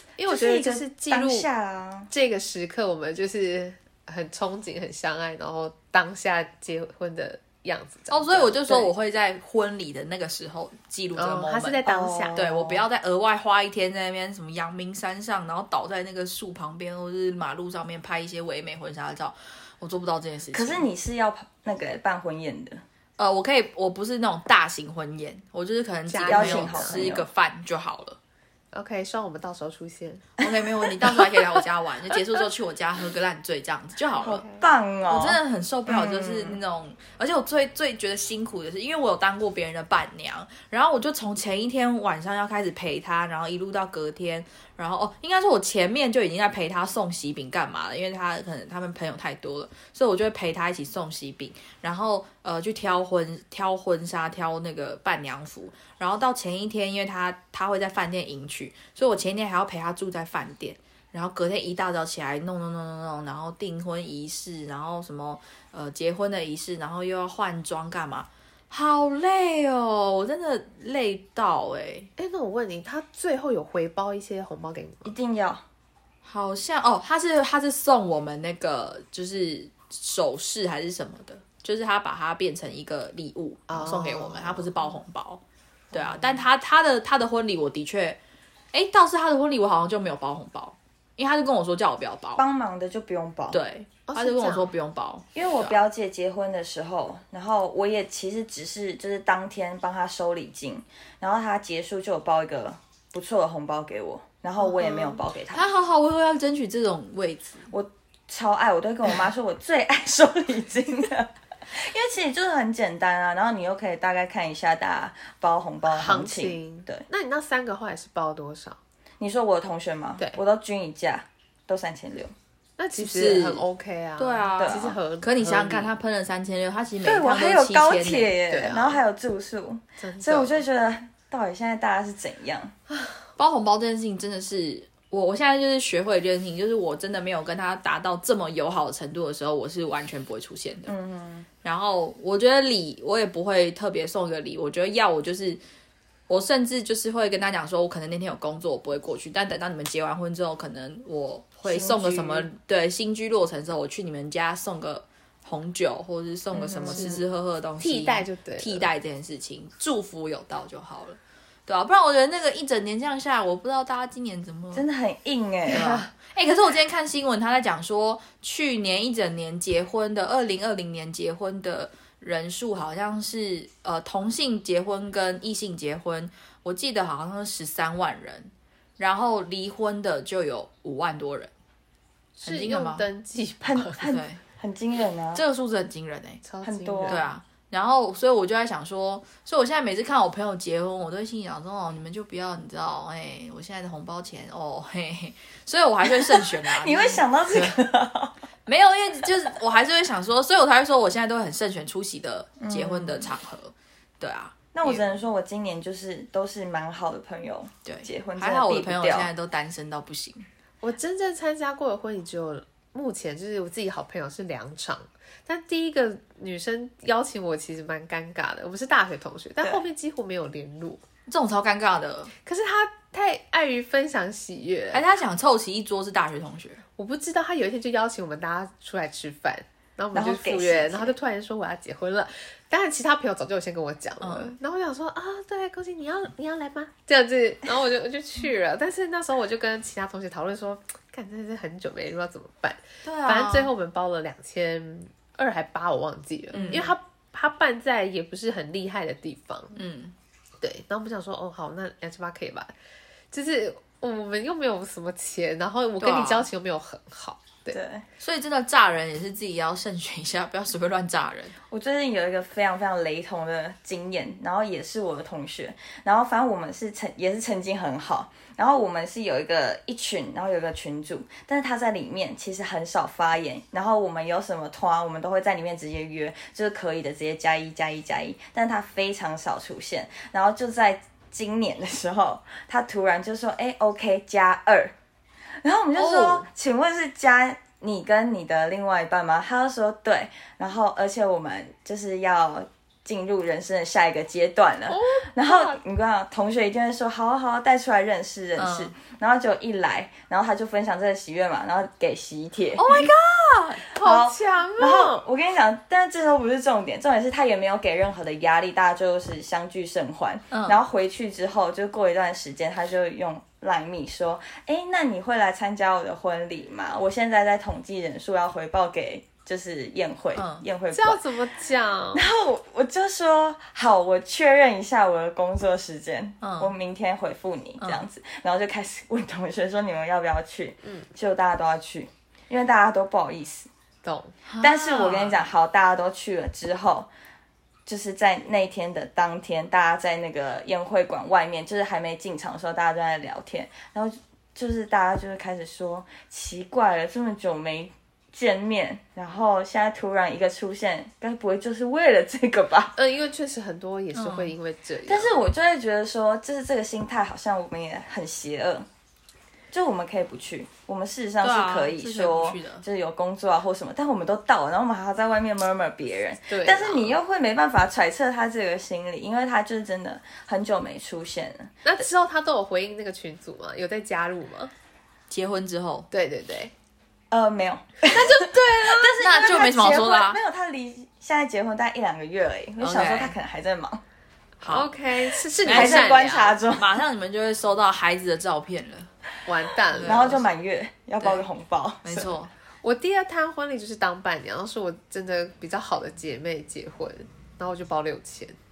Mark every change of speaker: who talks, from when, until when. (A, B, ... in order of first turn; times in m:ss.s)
0:00.2-0:01.5 A
0:00.3-0:02.1 B
0:02.1-0:08.9 A
0:08.1-0:11.8 C
0:11.2-0:12.4 A
0:11.8-0:12.9 B
0:12.4-0:20.9 C
0:20.5-0:22.8 B
0:23.2-0:28.2 C
0:26.1-0:27.0 A
0:26.3-0:27.3 B
0:28.7-0:30.4 A
0:30.4-0:34.4 C
0:34.2-0:36.6 B
0:34.2-0:34.6 A
0:35.1-1:12.1 C
1:12.2-1:15.1 A
1:15.0-1:15.6 B
1:16.2-1:28.2 C
1:23.7-1:24.7 A
1:28.7-1:32.4 C
1:32.4-1:33.6 B
1:33.5-1:35.8 C
1:34.1-1:34.7 A
1:35.4-1:45.6 B
1:44.8-1:45.1 A
1:45.5-1:47.7 C
1:47.7-1:57.0 B
1:55.9-1:58.8 A
1:59.2-2:02.3 B
2:02.8-2:05.9 A
2:02.9-2:03.6 C
2:04.2-2:08.3 C
2:04.6-2:05.0 B
2:07.0-2:12.7 B
2:08.5-2:09.0 A
2:10.0-2:10.6 A
2:13.4-2:20.9 C
2:20.9-2:21.5 B
2:21.6-2:25.6 C
2:26.3-2:44.9 C
2:31.7-2:32.5 B
2:36.5-2:37.2 B
2:36.8-2:37.2 A
2:37.8-2:38.9 A
2:44.7-2:45.9 B
2:45.7-3:01.5 C
2:45.7-2:46.1 A
3:02.4-3:04.0 A
3:02.4-3:03.0 C
3:03.6-3:05.4 B
3:04.0-3:04.4 C
3:05.4-3:06.4 C
3:06.4-3:07.2 A
3:06.6-3:07.2 B
3:07.1-3:17.8 C
3:16.0-3:18.3 B
3:18.7-3:25.1 C
3:22.6-3:23.3 B
3:24.7-3:29.3 B
3:27.8-3:30.5 C
3:30.8-3:41.0 A
3:41.3-3:42.3 C
3:42.4-3:45.0 A
3:44.9-3:46.8 C
3:47.0-4:09.8 A
3:50.1-3:51.1 B
3:54.2-3:54.5 C
4:03.0-4:03.7 C
4:06.5-4:06.9 C
4:09.8-4:10.1 C
4:10.6-4:12.7 A
4:13.3-4:17.8 A
4:16.0-4:16.5 C
4:17.7-4:18.0 B
4:18.2-4:21.6 C
4:21.7-4:44.9 B
4:45.6-5:03.1 B
4:46.0-4:46.5 C
4:54.9-4:55.8 A
4:58.6-4:58.9 C
5:02.8-5:03.9 C
5:03.9-5:05.2 A
5:04.0-5:21.2 B
5:10.5-5:10.8 C
5:20.4-5:20.6 C
5:20.9-5:22.3 A
5:22.1-5:33.7 B
5:26.4-5:26.7 C
5:34.0-5:34.3 A
5:34.5-5:35.4 C
5:34.6-5:37.1 B
5:37.9-5:53.0 B
5:53.0-5:55.4 A
5:54.1-5:54.5 C
5:55.1-5:58.9 B
5:59.7-6:11.8 B
6:01.4-6:02.8 C
6:06.5-6:07.2 A
6:11.8-6:14.7 A
6:15.3-6:16.1 C
6:16.1-6:16.7 A
6:17.3-6:24.0 B
6:18.1-6:20.4 C
6:22.8-6:23.4 C
6:24.6-6:26.6 A
6:24.6-6:24.9 C
6:25.6-6:29.1 C
6:25.6-6:27.0 B
6:29.5-6:30.4 A
6:29.9-6:30.4 C
6:30.1-6:32.3 B
6:32.0-6:32.5 C
6:32.8-6:38.6 A